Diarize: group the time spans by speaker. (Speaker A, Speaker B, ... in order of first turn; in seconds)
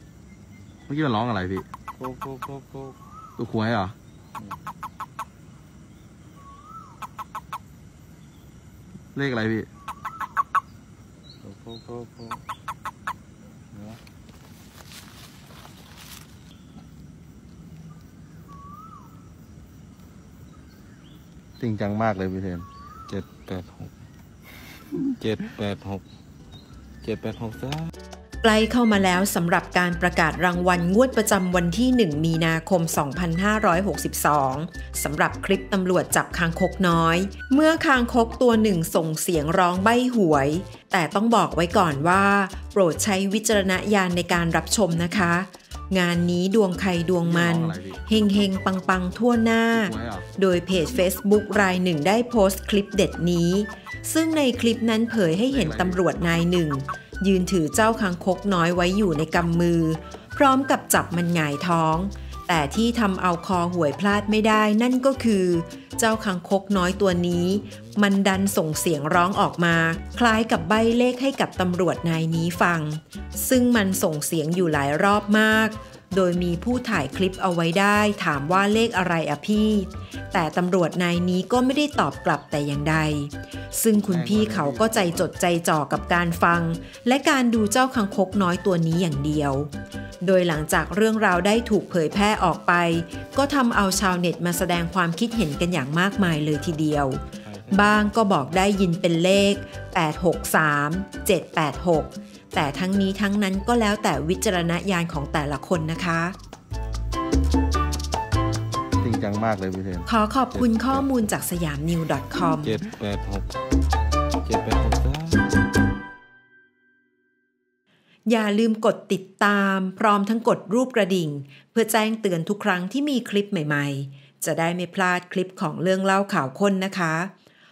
Speaker A: 0.9-1.7, 3.4-4.0, 9.1-9.7, 21.6-22.7, 47.2-48.6, 49.7-50.3, 55.5-56.0, 83.9-85.3, 109.0-110.0
Speaker B: 2.0-3.0, 11.4-12.4, 13.7-14.0, 23.1-23.9, 25.2-26.0, 27.0-27.9, 97.4-98.1, 112.6-113.5, 114.5-115.5
Speaker C: 28.4-106.4, 110.1-112.8, 118.3-127.3